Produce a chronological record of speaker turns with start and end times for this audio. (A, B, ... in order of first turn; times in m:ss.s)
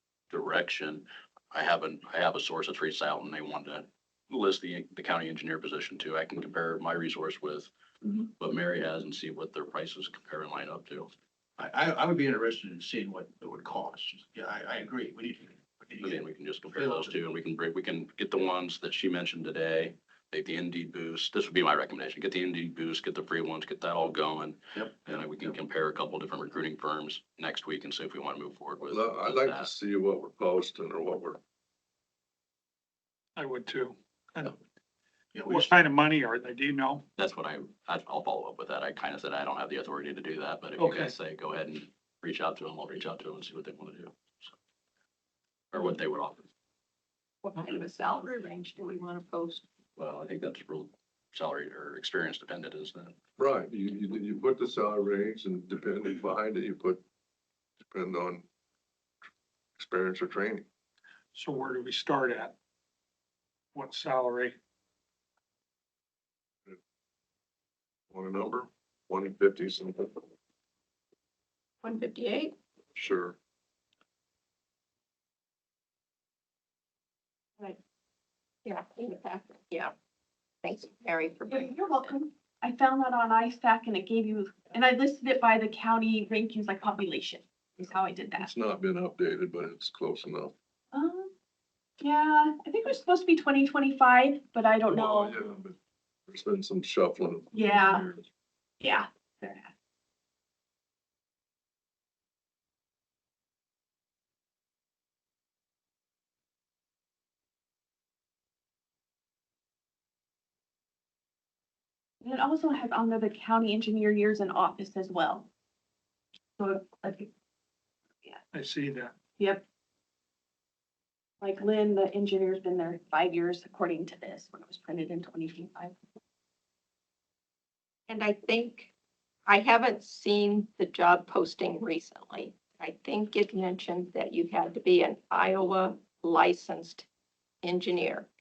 0:00.3-0:07.7 A
0:08.4-0:11.1 A
0:11.6-0:17.2 B
0:16.0-0:29.7 A
0:28.9-0:31.4 C
0:33.4-0:34.6 D
0:35.3-0:35.7 B
0:35.5-0:37.0 D
0:37.2-0:44.5 A
0:40.8-0:41.1 D
0:45.7-0:46.4 A
0:47.4-0:49.6 E
0:50.0-0:53.2 A
0:53.4-0:57.0 C
0:57.8-0:58.4 C
0:59.8-1:00.6 C
1:01.3-1:02.5 D
1:03.7-1:04.6 D
1:08.1-1:10.2 C
1:11.8-1:12.5 E
1:12.9-1:13.4 C
1:18.6-1:19.9 E
1:20.6-1:21.7 E
1:21.5-1:28.5 F
1:27.8-1:30.5 C
1:30.9-1:31.3 F
1:32.0-1:35.4 F
1:34.9-1:35.8 C
1:36.3-1:38.2 C
1:37.5-1:38.0 F
1:38.8-1:39.7 F
1:52.2-1:55.5 F
1:56.6-1:57.3 F
1:58.5-1:59.1 D
1:59.4-1:59.6 F
2:01.4-2:05.9 F
2:08.1-2:08.9 E
2:09.5-2:17.0 E
2:17.6-2:18.3 E